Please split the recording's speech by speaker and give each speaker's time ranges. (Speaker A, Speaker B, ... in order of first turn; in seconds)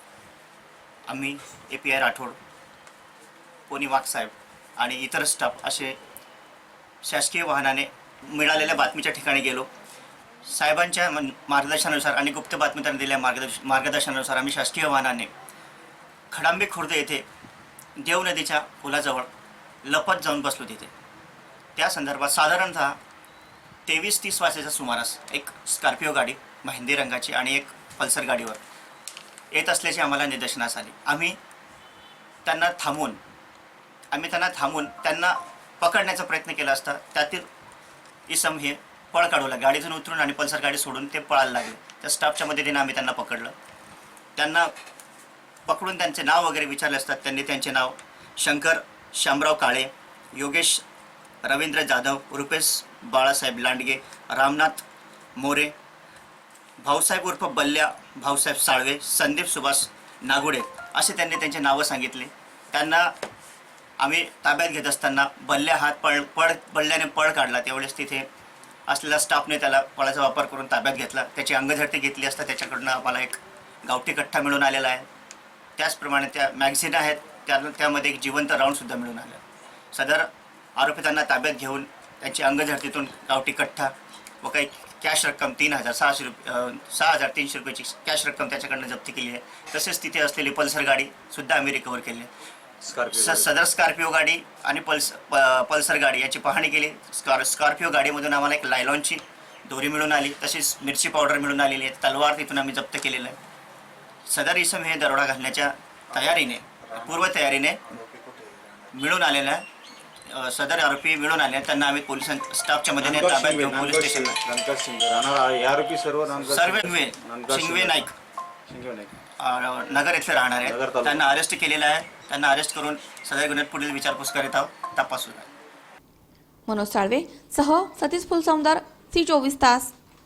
Speaker A: 1.1-2.4, 3.7-6.0, 7.0-9.7, 10.5-15.3, 16.3-17.2, 18.0-19.3, 19.8-20.9, 21.8-23.0, 23.9-28.6, 29.5-31.4, 32.4-33.2, 34.1-37.5, 38.3-43.5, 44.4-44.7, 45.7-50.8, 51.4-54.8, 55.4-55.7, 56.8-63.1, 64.0-68.3, 68.9-75.1, 75.8-79.4, 79.9-92.3, 93.1-103.4, 104.3-107.8, 108.9-109.6, 110.3-114.4, 116.5-118.1, 119.4-125.5
Speaker B: 92.8-93.5, 107.9-108.6, 113.0-118.0, 118.7-119.1, 120.6-121.2
Speaker C: 126.7-129.9